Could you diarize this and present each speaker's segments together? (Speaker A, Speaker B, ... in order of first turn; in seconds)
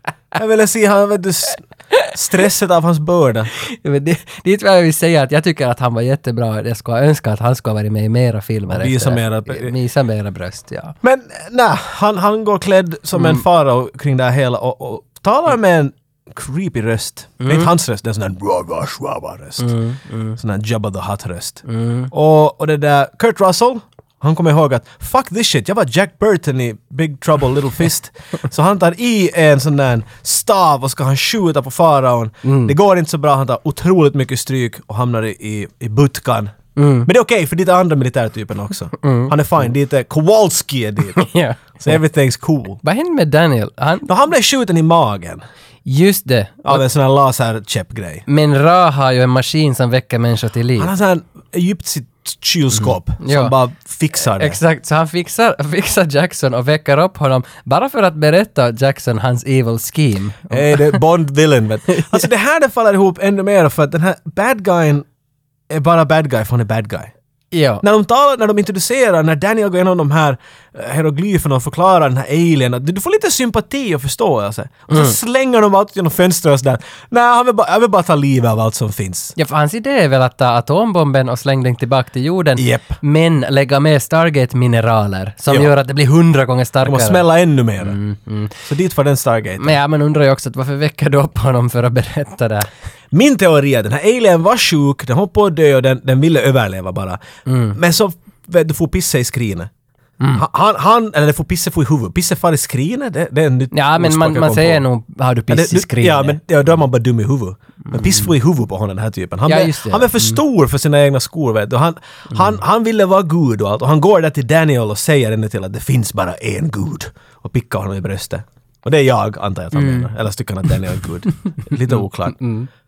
Speaker A: 0.3-3.5, 8.7-9.7, 11.0-19.7, 20.4-41.3, 41.8-42.8, 44.1-45.5, 46.6-48.2, 50.8-54.6, 60.5-65.1, 65.7-67.1, 67.8-79.3, 82.6-83.0, 86.8-88.0, 88.7-89.8, 93.1-97.2, 97.7-99.7, 100.3-104.9, 105.5-122.4
Speaker B: 3.7-10.9, 13.1-13.4, 17.4-17.7, 19.6-20.4, 21.7-22.1, 32.4-32.8, 36.8-37.1, 39.0-39.4, 41.2-42.0, 42.8-44.1, 45.9-46.8, 48.3-50.9, 52.8-53.5, 54.2-61.0, 62.0-62.3, 67.5-67.8, 74.9-75.2, 79.4-87.3, 87.8-88.6, 89.6-92.7, 97.5-97.8, 103.7-106.4, 107.9-108.3, 109.5-110.4, 119.7-120.1, 121.9-122.7